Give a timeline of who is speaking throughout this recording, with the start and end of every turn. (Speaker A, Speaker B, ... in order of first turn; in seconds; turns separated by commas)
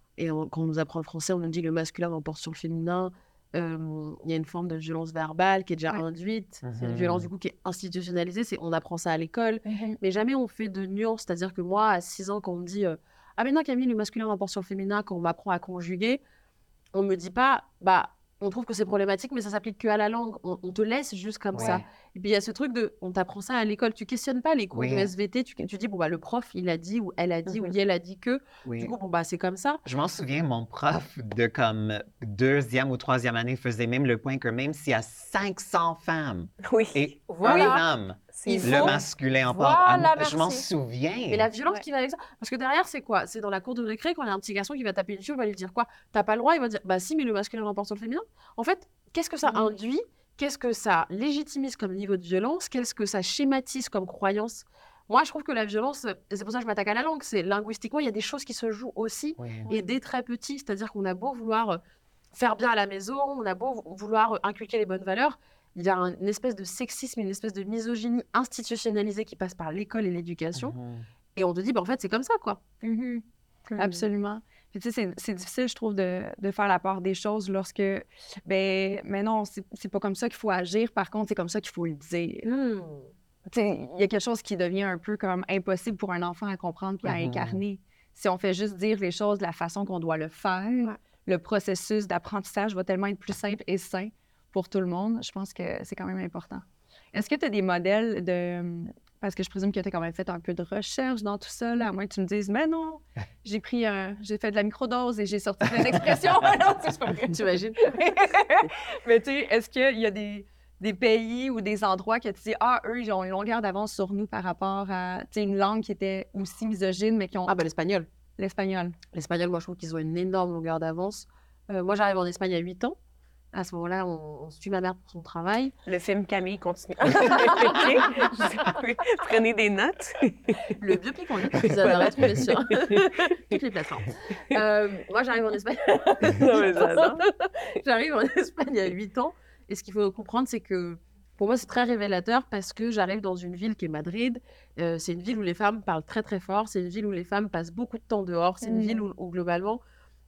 Speaker A: 0.2-16.2, Speaker B: 6.6-7.3, Speaker C: 9.7-10.0, Speaker A: 16.9-29.8, Speaker B: 21.5-21.8, Speaker B: 24.7-25.1, Speaker D: 27.5-27.7, Speaker B: 28.6-28.9, Speaker B: 29.8-41.5, Speaker D: 36.6-37.7, Speaker A: 37.3-37.8, Speaker D: 38.3-39.0, Speaker A: 38.5-40.6, Speaker A: 41.3-61.8, Speaker C: 49.5-49.8, Speaker B: 59.4-59.7, Speaker A: 62.3-70.7, Speaker B: 70.6-71.1, Speaker A: 71.3-72.6, Speaker C: 72.8-73.2, Speaker A: 73.7-74.0, Speaker C: 73.8-82.5, Speaker A: 82.4-83.1, Speaker C: 83.5-117.5, Speaker B: 87.0-87.6, Speaker A: 107.3-108.0, Speaker A: 117.5-118.1, Speaker C: 118.4-119.0, Speaker A: 119.1-123.0, Speaker A: 123.5-125.7, Speaker D: 125.8-130.7, Speaker A: 127.4-128.3, Speaker A: 130.8-149.8, Speaker D: 131.5-133.6, Speaker D: 136.2-137.2, Speaker C: 148.6-149.0